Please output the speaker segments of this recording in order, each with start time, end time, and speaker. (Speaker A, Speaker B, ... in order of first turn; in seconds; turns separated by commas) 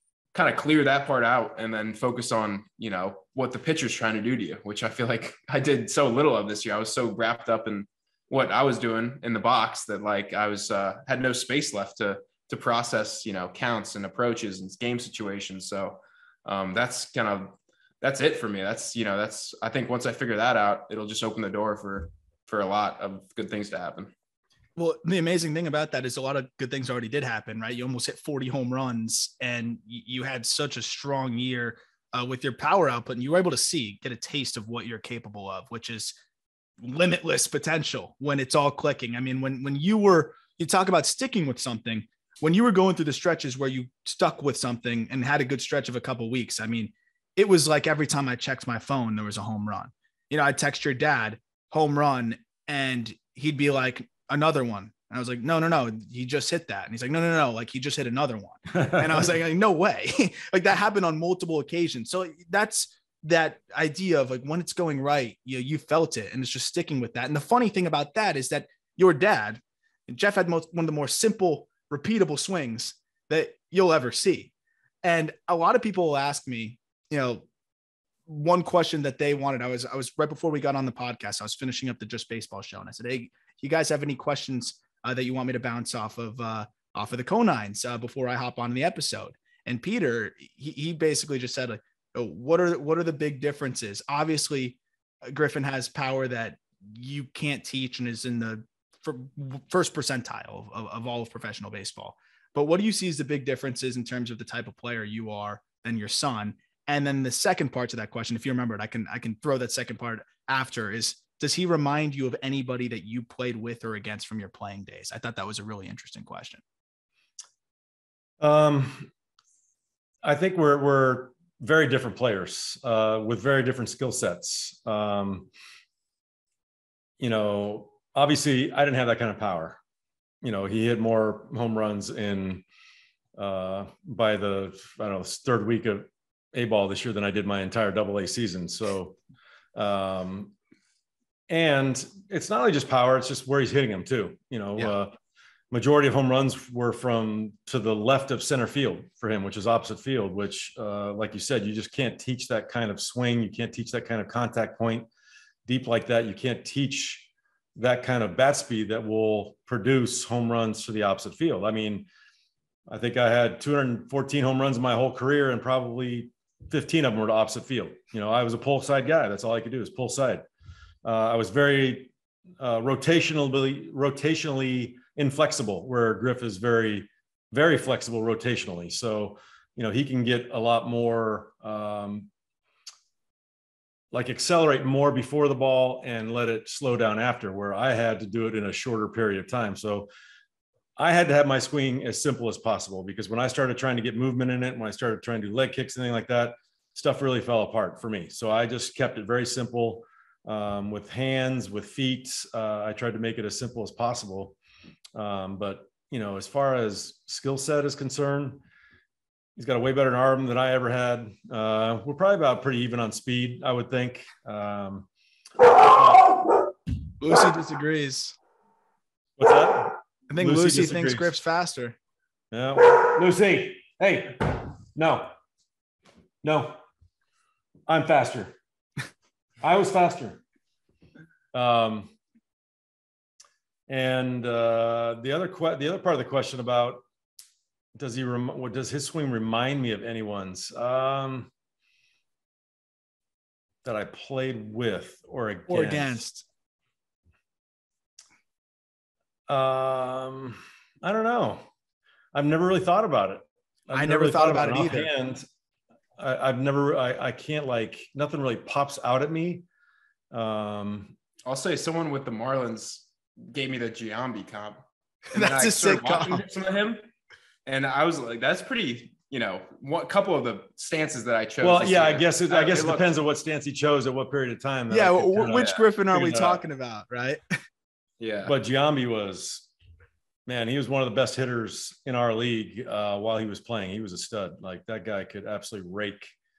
Speaker A: 0.3-24.1, Speaker B: 24.8-36.2, Speaker B: 36.8-74.5, Speaker B: 75.0-77.5, Speaker B: 78.3-116.6, Speaker C: 118.4-119.1, Speaker C: 120.2-125.5, Speaker C: 127.2-129.8, Speaker C: 130.4-132.6, Speaker C: 133.3-139.2, Speaker C: 139.8-140.5, Speaker C: 141.5-145.2, Speaker C: 145.7-155.1, Speaker C: 155.7-162.1, Speaker C: 162.9-170.4, Speaker C: 171.0-182.3, Speaker C: 184.1-190.1, Speaker C: 191.0-204.6, Speaker C: 205.2-208.6, Speaker C: 209.6-215.1, Speaker C: 215.6-216.7, Speaker B: 217.2-218.4, Speaker C: 219.4-221.4, Speaker B: 220.3-222.0, Speaker C: 222.5-225.3, Speaker C: 226.4-226.8, Speaker C: 227.9-228.6, Speaker C: 229.6-230.4, Speaker C: 231.5-232.1, Speaker C: 233.9-237.0, Speaker C: 238.0-241.5, Speaker C: 243.8-246.2, Speaker B: 245.7-246.4, Speaker C: 249.5-251.7, Speaker C: 252.3-255.4, Speaker B: 253.9-255.1, Speaker C: 256.2-259.7, Speaker C: 260.3-261.1, Speaker A: 261.5-264.8, Speaker B: 265.3-266.4, Speaker A: 265.3-267.1, Speaker A: 267.7-273.1, Speaker C: 271.6-276.6, Speaker B: 274.9-277.4, Speaker A: 275.5-275.8, Speaker A: 278.2-278.5, Speaker C: 278.4-279.7, Speaker C: 280.5-286.3